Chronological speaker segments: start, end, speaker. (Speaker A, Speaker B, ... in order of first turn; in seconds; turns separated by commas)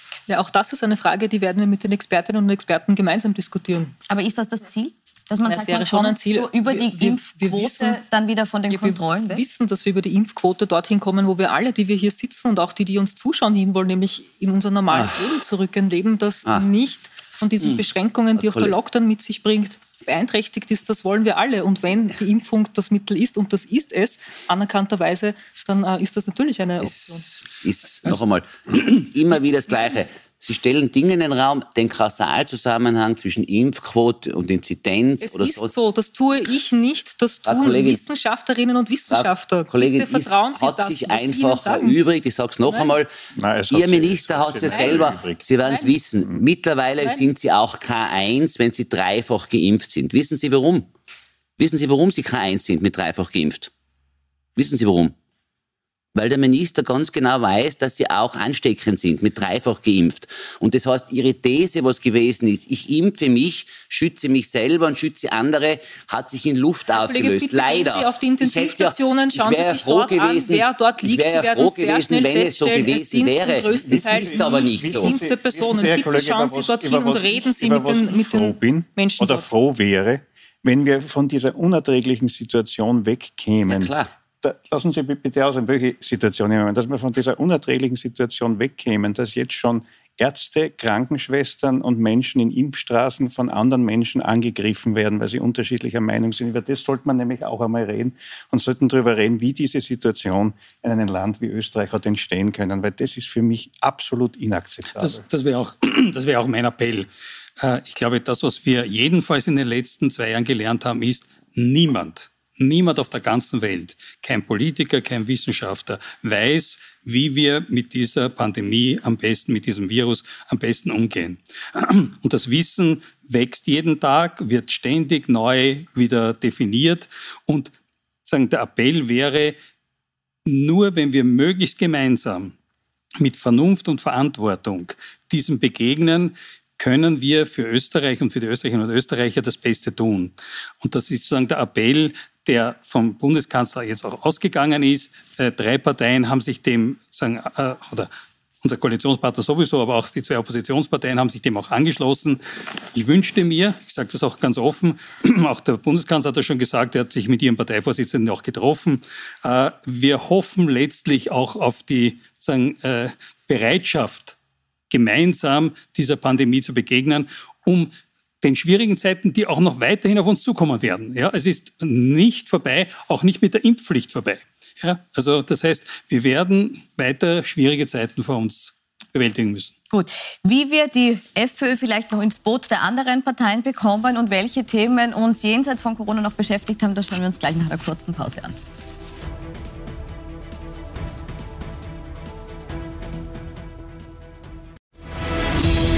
Speaker A: 0.3-3.9, Speaker B: 4.1-9.4, Speaker A: 5.5-8.0, Speaker A: 8.7-27.2, Speaker C: 14.9-15.3, Speaker C: 18.4-18.8, Speaker C: 26.8-35.7, Speaker A: 35.2-42.0, Speaker C: 37.5-38.1, Speaker C: 39.1-43.1, Speaker A: 42.7-43.0, Speaker D: 43.4-45.4, Speaker C: 43.7-50.9, Speaker A: 44.6-45.1, Speaker A: 45.6-46.0, Speaker A: 47.0-47.2, Speaker C: 51.6-53.7, Speaker C: 54.6-55.1, Speaker C: 56.1-75.2, Speaker A: 66.9-79.5, Speaker D: 73.9-105.2, Speaker C: 83.7-84.1, Speaker E: 104.9-107.1, Speaker E: 107.6-127.7, Speaker E: 128.3-129.6, Speaker E: 130.4-132.6, Speaker E: 133.2-148.1, Speaker E: 148.6-152.4, Speaker E: 152.9-164.4, Speaker E: 164.9-179.8, Speaker B: 179.9-188.6